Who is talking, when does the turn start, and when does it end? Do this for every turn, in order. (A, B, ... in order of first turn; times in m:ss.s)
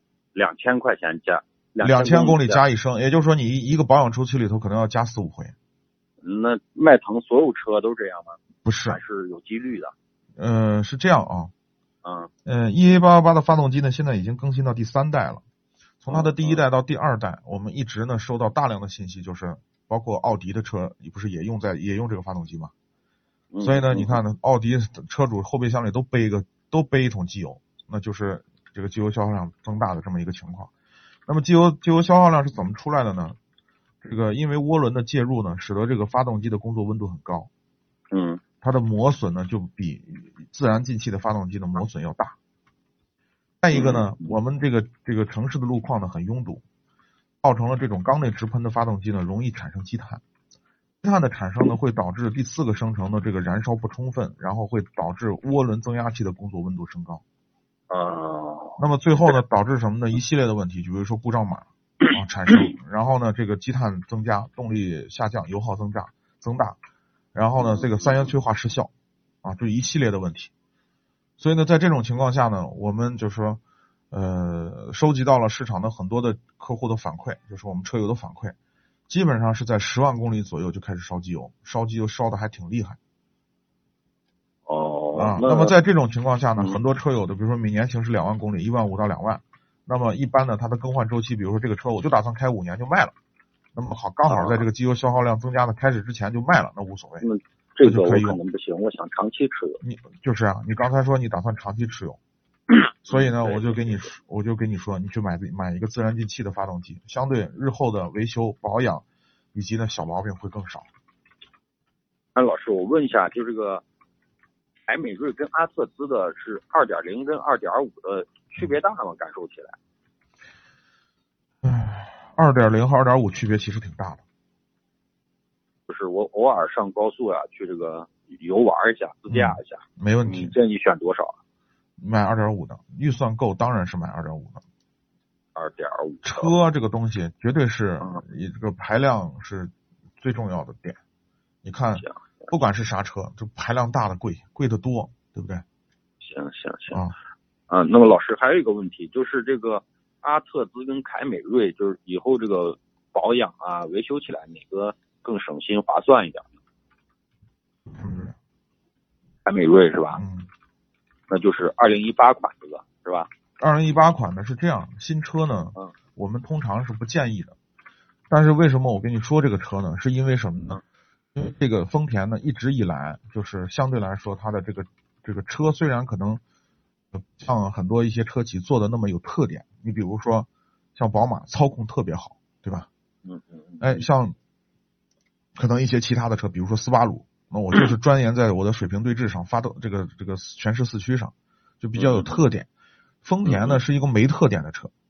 0:00.3-0:02.6 A
0:01.8-0:05.5 B
0:06.2-0:09.9 A
0:08.6-0:09.0 B
0:10.4-0:11.5 B
0:12.0-0:12.3 A
0:12.4-0:15.4 B
0:16.0-0:22.7 B
0:16.1-0:16.6 A
0:23.5-0:24.2 A
0:23.6-0:30.7 B
0:31.3-0:33.4 B
0:34.0-0:37.5 B
0:38.1-0:38.4 A
0:38.6-0:42.4 B
0:43.6-0:46.6 B
0:43.7-0:44.3 A
0:47.4-0:50.2 B
0:51.0-0:57.2 B
0:57.9-0:59.3 A
0:58.8-1:06.8 B
1:07.3-1:08.9 B
1:07.6-1:08.3 A
1:09.4-1:10.5 B
1:11.4-1:18.5 B
1:19.1-1:23.0 B
1:24.7-1:25.7 A
1:25.1-1:33.1 B
1:33.7-1:37.2 B
1:34.3-1:34.6 A
1:37.2-1:39.8 A
1:37.8-1:38.4 B
1:39.8-1:42.2 B
1:43.0-1:50.9 B
1:43.1-1:44.1 A
1:52.3-1:53.8 A
1:54.9-1:59.8 A
2:01.6-2:04.2 B
2:05.9-2:11.4 A
2:09.3-2:10.5 B
2:12.0-2:14.6 B
2:15.6-2:16.5 A
2:16.2-2:21.0 B
2:21.6-2:25.6 B
2:26.2-2:27.0 A
2:27.7-2:36.5 A
2:37.9-2:38.3 B
2:39.4-2:40.2 A
2:40.2-2:40.5 B
2:41.3-2:43.3 A
2:43.6-2:47.6 B
2:48.3-2:50.8 B
2:51.3-2:56.4 B
2:57.1-3:02.9 B
3:03.2-3:04.0 A
3:03.8-3:04.4 B
3:05.6-3:12.7 B
3:11.9-3:12.4 A
3:13.2-3:14.9 B
3:13.4-3:13.8 A